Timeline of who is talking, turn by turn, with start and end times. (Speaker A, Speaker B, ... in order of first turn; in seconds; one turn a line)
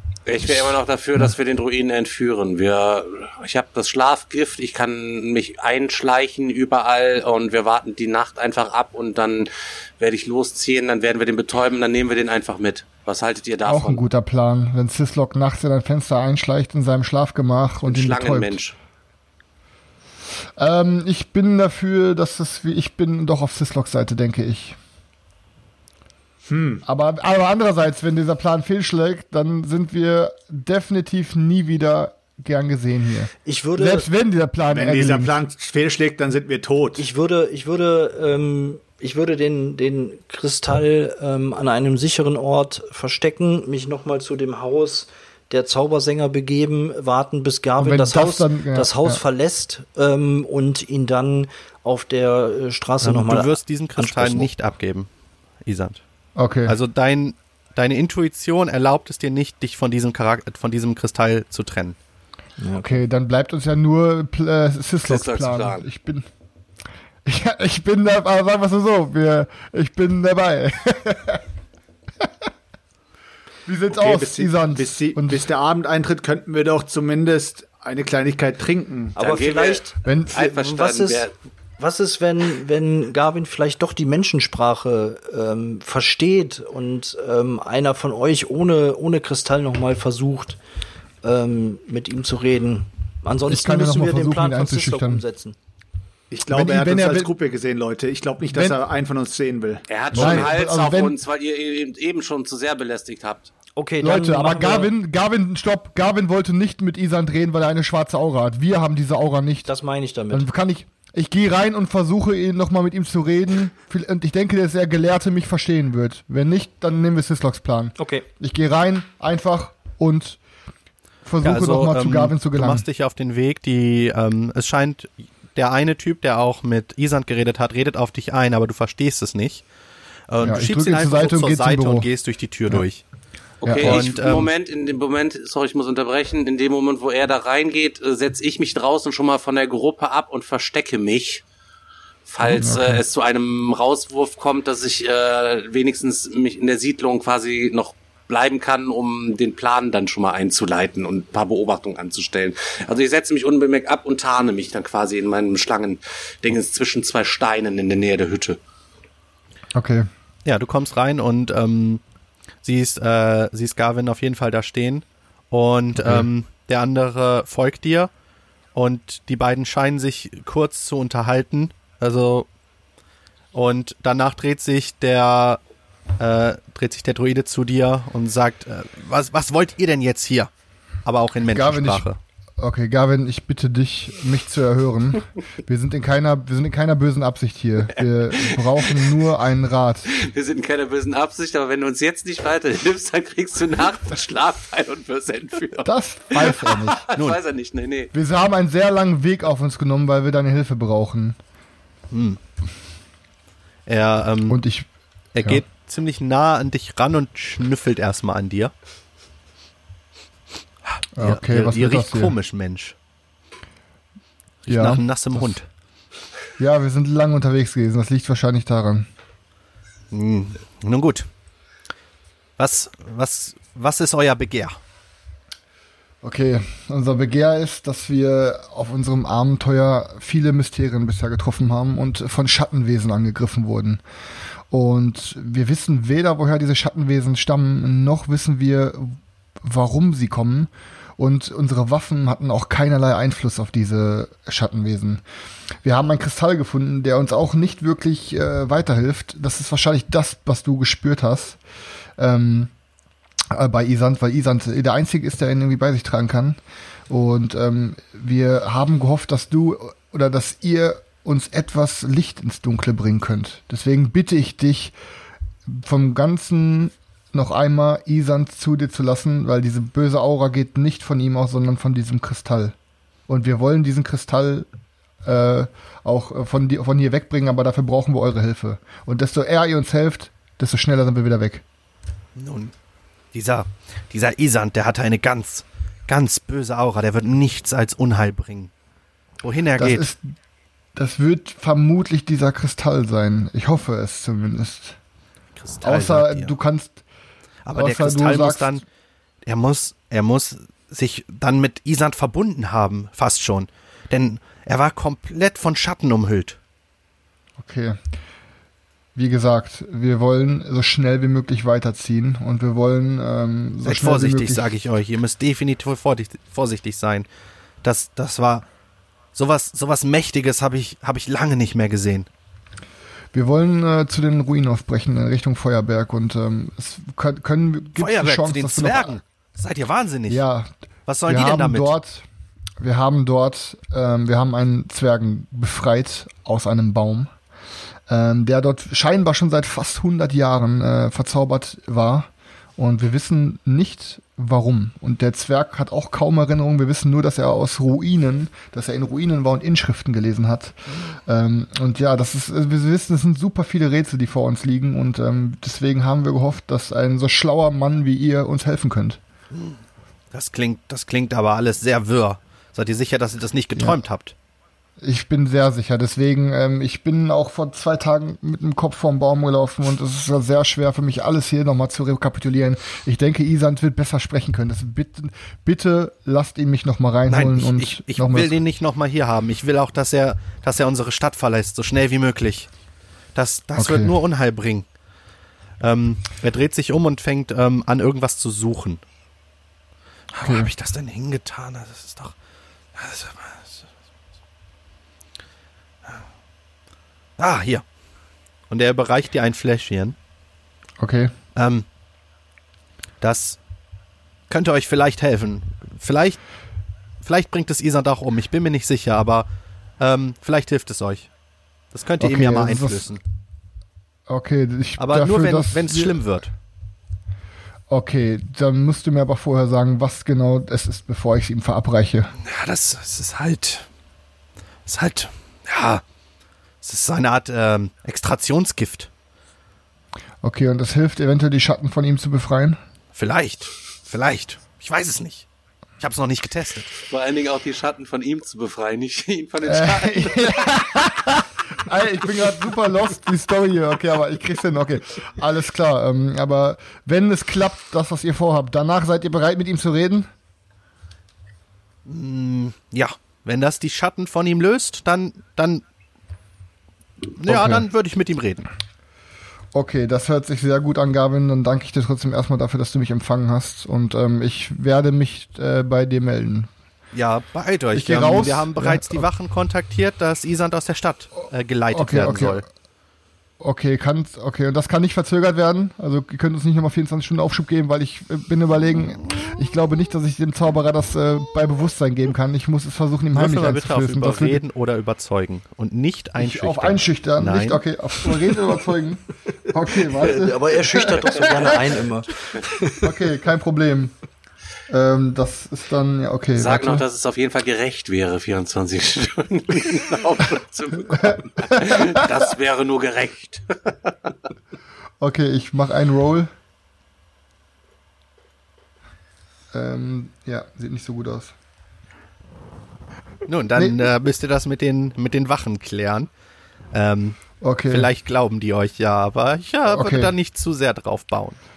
Speaker A: 0.3-14.0
Speaker B: 0.4-1.3
Speaker B: 13.7-18.6
Speaker A: 17.8-18.8
Speaker B: 20.6-24.8
Speaker C: 26.5-26.8
Speaker B: 26.9-35.4
Speaker D: 33.5-34.1
Speaker C: 34.7-37.0
Speaker D: 37.0-54.5
Speaker B: 47.8-49.2
Speaker E: 53.0-55.1
Speaker E: 55.6-56.0
Speaker B: 56.4-56.8
Speaker E: 56.6-62.0
Speaker D: 62.6-63.0
Speaker B: 62.8-66.3
Speaker A: 65.1-65.8
Speaker B: 67.2-71.4
Speaker B: 73.7-75.5
Speaker C: 73.9-79.2
Speaker A: 79.2-81.3
Speaker D: 79.2-81.3
Speaker B: 80.0-80.4
Speaker D: 81.8-90.6
Speaker D: 91.2-95.6
Speaker B: 93.5-95.2
Speaker C: 96.3-99.8
Speaker B: 96.5-97.3
Speaker B: 98.5-98.8
Speaker A: 99.9-103.5
Speaker B: 100.1-101.2
Speaker D: 103.8-104.9
Speaker B: 104.0-109.7
Speaker D: 109.7-110.5
Speaker B: 110.3-120.4
Speaker D: 118.0-118.3
Speaker B: 121.2-122.9
Speaker E: 121.4-129.7
Speaker E: 130.3-133.0
Speaker B: 130.4-132.1
Speaker A: 133.6-141.4
Speaker B: 133.6-134.0
Speaker E: 133.7-134.5
Speaker A: 142.3-158.6
Speaker B: 142.4-143.0
Speaker B: 159.8-160.1
Speaker E: 160.4-162.0
Speaker E: 162.6-168.1
Speaker B: 165.9-166.3
Speaker E: 168.7-172.5
Speaker E: 173.5-175.6
Speaker E: 176.2-180.5
Speaker E: 181.0-182.2
Speaker B: 181.5-182.1
Speaker B: 182.6-190.1
Speaker A: 188.3-189.2
Speaker A: 190.2-198.1
Speaker B: 195.8-197.1
Speaker E: 197.2-197.4
Speaker B: 198.1-201.4
Speaker E: 202.1-202.4
Speaker E: 203.9-204.6
Speaker B: 204.5-204.9
Speaker E: 205.3-208.7
Speaker E: 210.9-213.0
Speaker B: 211.2-212.3
Speaker E: 214.6-215.7
Speaker B: 214.7-215.5
Speaker B: 216.6-219.1
Speaker E: 220.1-221.3
Speaker E: 222.6-224.8
Speaker B: 226.2-234.0
Speaker B: 234.7-245.2
Speaker B: 245.8-251.6
Speaker B: 252.2-252.7
Speaker B: 253.5-264.9
Speaker B: 265.7-272.8
Speaker B: 273.3-274.7
Speaker B: 275.2-281.6
Speaker E: 282.4-282.7
Speaker E: 283.3-288.7
Speaker E: 289.4-290.1
Speaker B: 289.8-290.2
Speaker B: 290.9-295.0
Speaker E: 295.6-296.5
Speaker B: 295.8-297.0
Speaker E: 297.6-298.8
Speaker B: 297.8-298.7
Speaker E: 299.4-306.6
Speaker B: 307.6-308.0
Speaker B: 309.1-314.7
Speaker E: 313.9-317.3
Speaker E: 317.8-318.7
Speaker E: 319.3-322.3
Speaker B: 323.3-329.2
Speaker E: 328.0-330.4
Speaker B: 330.3-330.7
Speaker E: 331.1-331.9
Speaker B: 331.3-332.2
Speaker B: 332.8-337.3
Speaker B: 338.1-359.2
Speaker E: 359.5-359.8
Speaker E: 360.3-364.3
Speaker B: 365.0-378.6
Speaker E: 377.3-382.7
Speaker E: 383.4-384.9
Speaker B: 383.8-384.1
Speaker E: 385.8-389.0
Speaker E: 390.3-392.4
Speaker B: 390.4-390.7
Speaker E: 392.9-393.9
Speaker E: 397.4-397.9
Speaker E: 398.7-400.2
Speaker B: 401.0-401.3
Speaker E: 401.6-401.9
Speaker E: 403.2-403.6
Speaker E: 404.5-406.4
Speaker E: 407.2-409.5
Speaker E: 410.0-411.3
Speaker E: 411.9-413.2
Speaker B: 412.2-413.1
Speaker B: 414.3-416.2
Speaker E: 415.0-416.5
Speaker B: 417.9-422.3
Speaker E: 422.4-423.9
Speaker E: 424.9-426.0
Speaker E: 426.8-429.1
Speaker B: 430.4-432.8
Speaker E: 433.1-435.5
Speaker E: 436.0-437.0
Speaker A: 437.1-440.8
Speaker B: 439.6-450.3
Speaker E: 452.1-455.8
Speaker E: 457.3-458.7
Speaker B: 457.5-457.9
Speaker B: 459.7-466.7
Speaker E: 467.1-472.6
Speaker B: 467.9-469.3
Speaker B: 471.9-472.6
Speaker B: 473.6-484.6
Speaker E: 483.4-487.8
Speaker B: 486.4-491.6
Speaker D: 490.2-493.1
Speaker B: 493.0-494.2
Speaker B: 494.9-497.0
Speaker A: 496.6-504.3
Speaker B: 501.2-502.2
Speaker B: 505.2-506.5
Speaker B: 509.7-511.5
Speaker E: 513.5-516.3
Speaker B: 513.8-514.1
Speaker E: 516.9-521.6
Speaker B: 517.6-518.1
Speaker B: 519.9-520.3